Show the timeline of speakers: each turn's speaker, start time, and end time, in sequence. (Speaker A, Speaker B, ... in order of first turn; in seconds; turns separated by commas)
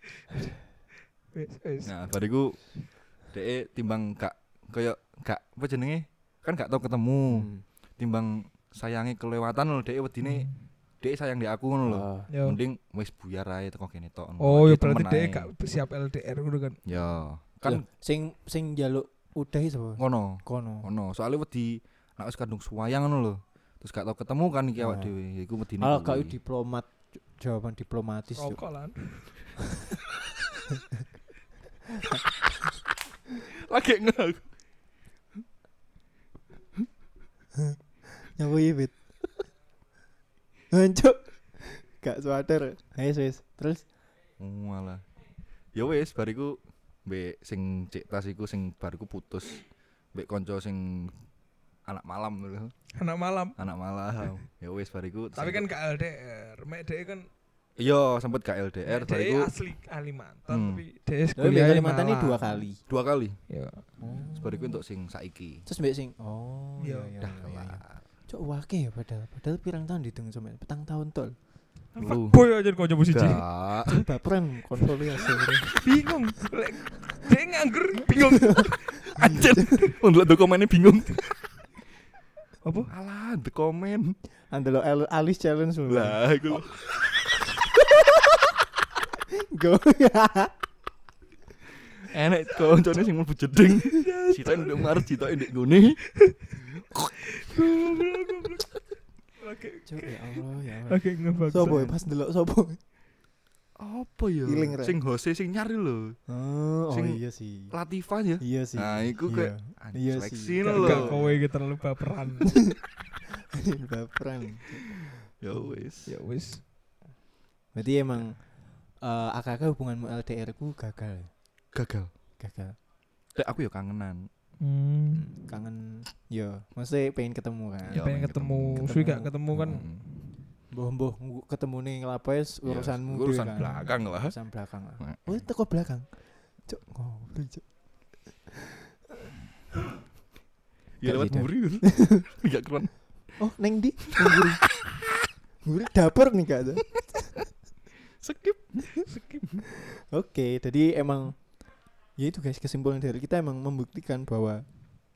Speaker A: 1.3-1.9, Speaker B: 1.9-15.5, Speaker C: 7.3-7.6, Speaker A: 10.2-10.6, Speaker C: 11.8-12.3, Speaker A: 12.3-12.6, Speaker A: 14.4-16.8, Speaker B: 16.9-17.8, Speaker C: 17.6-20.9, Speaker B: 20.0-26.3, Speaker C: 24.8-25.1, Speaker C: 25.8-28.6, Speaker A: 28.4-29.6, Speaker B: 33.4-34.5, Speaker C: 37.6-39.0, Speaker C: 40.7-43.9, Speaker B: 44.4-45.0, Speaker B: 45.7-51.2, Speaker B: 51.9-52.7, Speaker A: 53.0-53.6, Speaker B: 53.6-55.7, Speaker A: 55.4-57.3, Speaker B: 57.8-59.5, Speaker A: 58.9-62.6, Speaker B: 60.5-60.8, Speaker C: 61.4-62.8, Speaker B: 62.9-63.4, Speaker A: 63.5-63.9, Speaker C: 64.0-64.8, Speaker B: 64.4-65.7, Speaker C: 65.7-71.3, Speaker A: 66.8-67.1, Speaker B: 67.2-68.0, Speaker A: 72.0-73.4, Speaker B: 72.0-72.4, Speaker B: 73.1-74.0, Speaker C: 73.9-75.8, Speaker A: 75.8-79.5, Speaker B: 79.2-81.4, Speaker C: 79.2-79.7, Speaker A: 82.6-82.9, Speaker B: 82.9-84.2, Speaker C: 84.5-86.6, Speaker B: 85.9-86.8, Speaker C: 89.3-90.5, Speaker B: 92.0-96.0, Speaker A: 94.0-95.1, Speaker A: 97.2-98.8, Speaker A: 99.4-101.9, Speaker C: 99.9-102.8, Speaker B: 103.8-106.2, Speaker C: 104.5-105.0, Speaker C: 106.3-107.7, Speaker B: 106.9-111.3, Speaker C: 108.4-111.4, Speaker A: 110.6-112.6, Speaker C: 113.4-114.8, Speaker B: 115.4-116.1, Speaker A: 116.1-116.6, Speaker C: 117.7-118.5, Speaker C: 119.0-121.3, Speaker B: 121.7-122.1, Speaker C: 122.4-122.8, Speaker B: 123.3-124.3, Speaker A: 124.6-125.3, Speaker C: 125.2-128.1, Speaker B: 127.9-128.9, Speaker A: 127.9-130.1, Speaker C: 128.8-129.3, Speaker B: 129.5-130.0, Speaker C: 130.7-136.2, Speaker B: 132.7-134.3, Speaker B: 135.0-135.3, Speaker C: 136.7-137.7, Speaker C: 138.5-138.9, Speaker B: 141.0-143.1, Speaker C: 141.0-142.2, Speaker C: 143.4-144.7, Speaker B: 144.1-144.4, Speaker C: 145.6-147.3, Speaker B: 148.2-149.6, Speaker A: 149.1-149.4, Speaker C: 150.0-151.6, Speaker C: 152.2-154.6